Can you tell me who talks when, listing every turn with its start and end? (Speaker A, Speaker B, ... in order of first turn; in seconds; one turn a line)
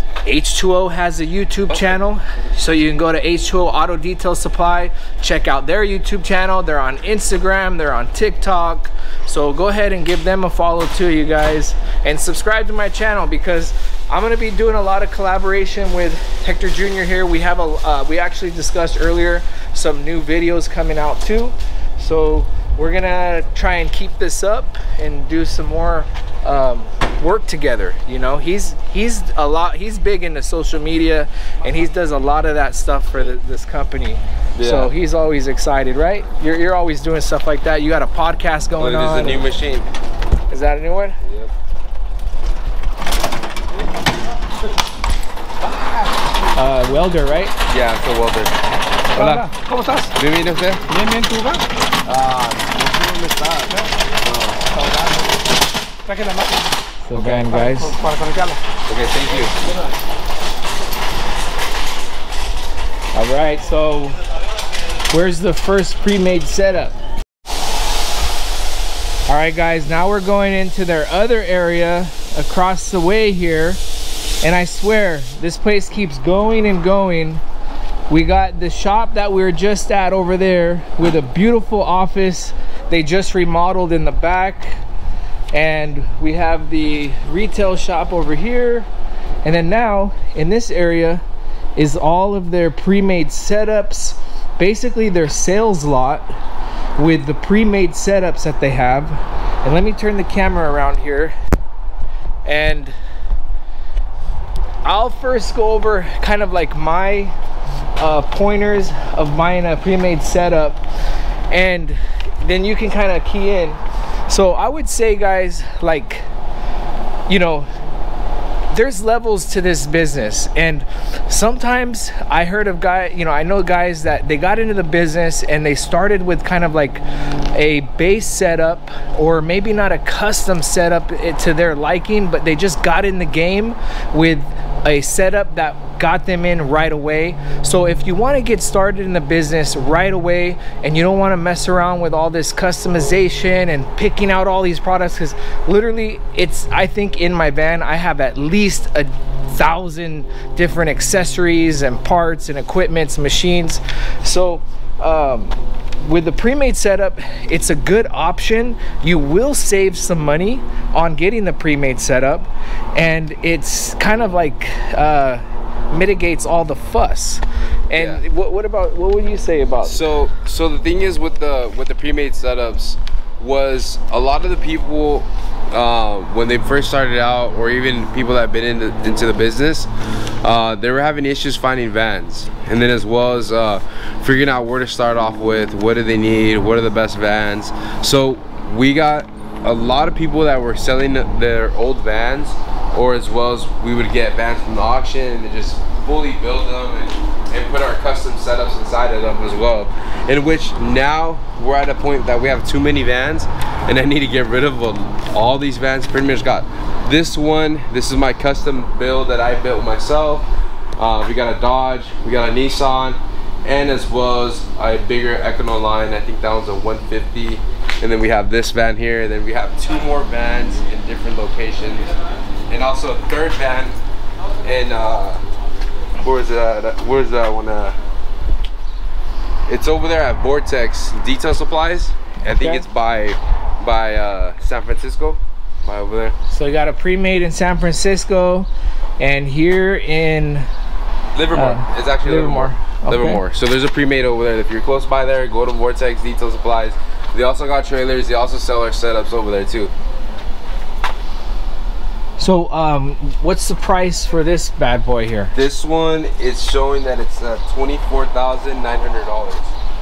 Speaker A: 0.2-39.4
Speaker B: 1.7-2.0
Speaker B: 34.5-34.9
Speaker B: 38.8-39.9
Speaker A: 40.5-41.2
Speaker B: 41.2-41.5
Speaker C: 45.6-46.4
Speaker A: 46.5-47.5
Speaker B: 47.7-48.5
Speaker C: 49.1-50.1
Speaker B: 49.1-49.4
Speaker B: 50.1-50.8
Speaker C: 50.9-51.7
Speaker B: 52.0-53.4
Speaker C: 52.8-54.0
Speaker B: 54.1-54.6
Speaker C: 54.7-55.5
Speaker C: 56.0-58.6
Speaker A: 57.1-58.0
Speaker B: 58.9-59.5
Speaker C: 59.6-59.9
Speaker A: 63.1-64.2
Speaker A: 65.1-67.0
Speaker A: 69.3-73.8
Speaker A: 74.4-77.4
Speaker A: 78.1-84.8
Speaker A: 85.5-88.9
Speaker A: 89.4-91.2
Speaker A: 91.8-96.3
Speaker A: 97.0-101.3
Speaker A: 102.4-103.0
Speaker A: 104.8-107.3
Speaker A: 108.0-110.8
Speaker A: 111.5-116.2
Speaker A: 117.3-117.7
Speaker A: 118.7-127.0
Speaker A: 127.5-170.0
Speaker B: 167.9-168.2
Speaker B: 169.8-179.9
Speaker B: 180.4-222.1
Speaker B: 222.7-224.0
Speaker B: 224.6-225.4
Speaker B: 226.2-228.0
Speaker B: 229.7-236.3
Speaker A: 232.4-232.8
Speaker A: 236.5-238.7
Speaker A: 239.2-240.7
Speaker B: 241.3-249.9
Speaker A: 241.5-243.4
Speaker A: 252.4-255.5
Speaker B: 255.5-259.7